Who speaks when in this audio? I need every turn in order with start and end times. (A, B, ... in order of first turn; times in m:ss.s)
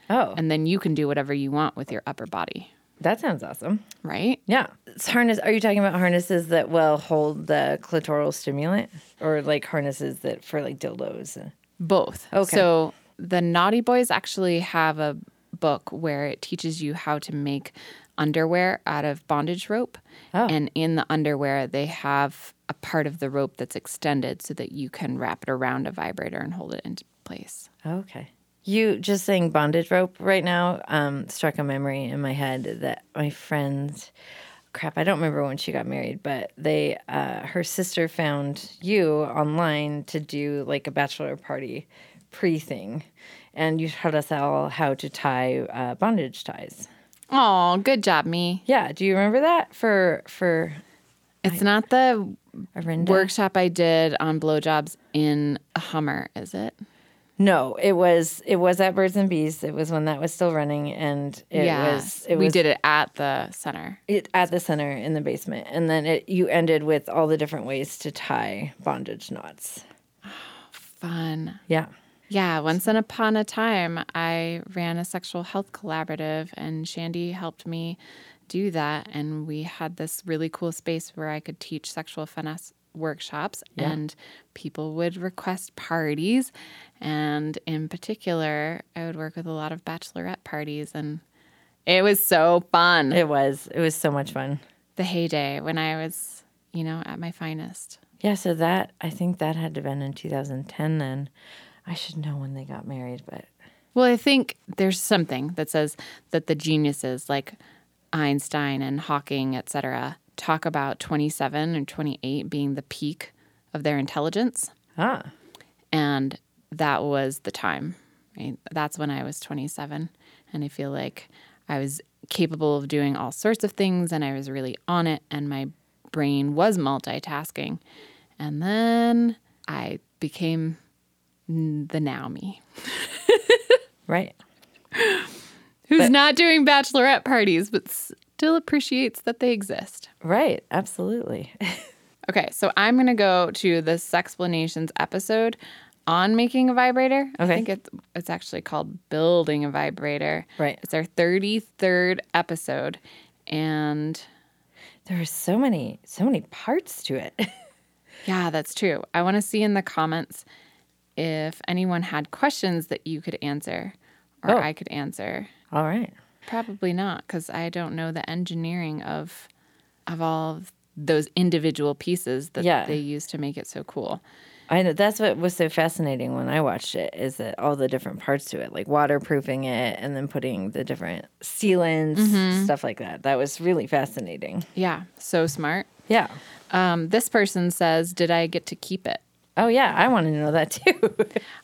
0:00.1-0:00.4 A
0:00.3-0:02.7 B
0:03.0-0:03.8 A
0:04.0-0:04.4 B
0:04.5-0:11.5 A
0:11.8-0:27.7 B
0:12.3-0:12.7 A
0:27.8-0:34.1 A
0:34.7-0:46.9 A
0:47.3-0:48.6 B
0:48.6-0:50.8 A
0:51.4-0:52.4 B
0:52.8-0:53.3 A
0:53.0-0:56.8 B
0:57.4-1:02.6 A
1:01.5-1:04.0 B
1:04.1-1:09.8 A
1:10.2-1:11.6 B
1:12.3-1:31.2 B
1:31.8-1:33.2 B
1:33.1-1:34.6 A
1:35.0-1:38.0 B
1:38.2-1:41.3 A
1:41.8-1:43.5 A
1:43.9-1:47.6 B
1:48.1-1:54.7 B
1:55.0-1:55.3 A
1:55.9-2:07.8 B
2:08.4-2:10.8 B
2:11.5-2:13.8 B
2:14.1-2:14.4 A
2:14.9-2:15.3 B
2:15.9-2:20.1 B
2:20.2-2:21.8 A
2:22.3-2:34.2 B
2:27.4-2:27.6 A
2:35.0-2:37.6 A
2:38.2-2:40.4 B
2:41.2-2:45.5 B
2:45.7-2:46.1 A
2:46.5-2:49.5 B
2:50.1-2:54.2 B
2:52.6-2:53.0 A
2:54.7-3:04.6 A
3:02.1-3:02.7 B
3:04.7-3:05.9 B
3:06.1-3:06.4 A
3:06.7-3:09.2 B
3:09.6-3:11.4 A